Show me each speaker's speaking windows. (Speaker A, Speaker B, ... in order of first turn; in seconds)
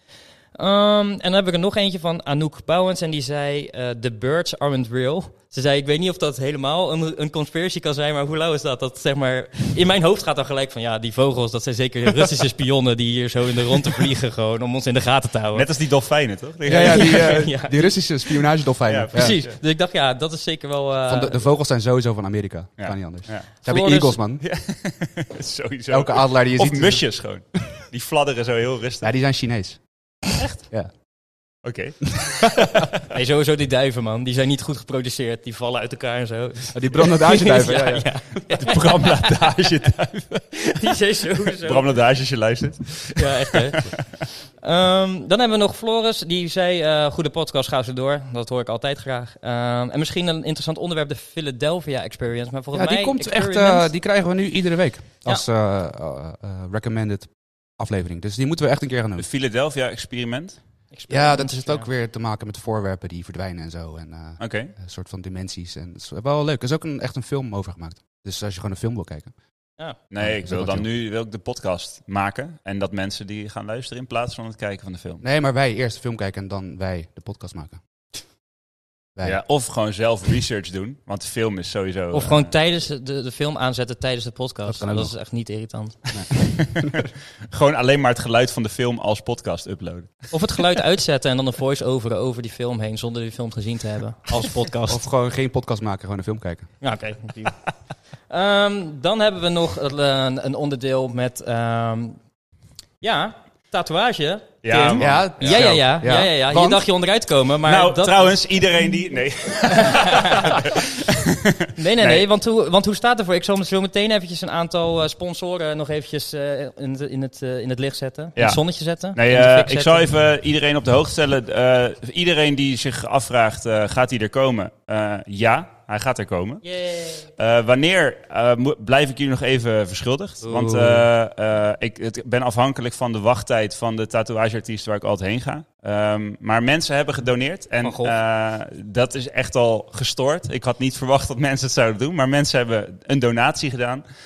Speaker A: 0.6-15.7, 16.7-18.5, 19.1-21.4, 23.6-24.2, 33.1-39.4, 40.7-41.9, 43.2-43.9, 44.6-53.9, 60.9-61.9, 82.1-86.0, 90.3-95.0, 96.8-97.6, 98.3-102.2, 103.0-108.4, 109.7-110.6, 111.8-120.1, 126.6-127.2, 130.4-131.1, 137.8-138.2
Speaker B: 15.5-17.5, 18.9-19.6, 22.8-23.6, 24.4-29.1, 31.6-32.9, 38.5-40.8, 41.6-43.9, 59.2-60.6, 64.4-64.7, 70.1-75.2, 79.2-82.5, 86.4-90.3, 104.6-105.9, 107.7-112.2, 118.4-118.6, 119.1-126.6, 127.4-144.0
Speaker C: 16.7-19.4, 21.1-24.4, 25.9-27.3, 29.0-30.1, 36.7-38.1, 52.7-59.3, 61.1-69.3, 70.2-70.9, 75.2-77.8, 79.2-79.4, 84.7-85.1, 94.9-96.7, 105.0-106.8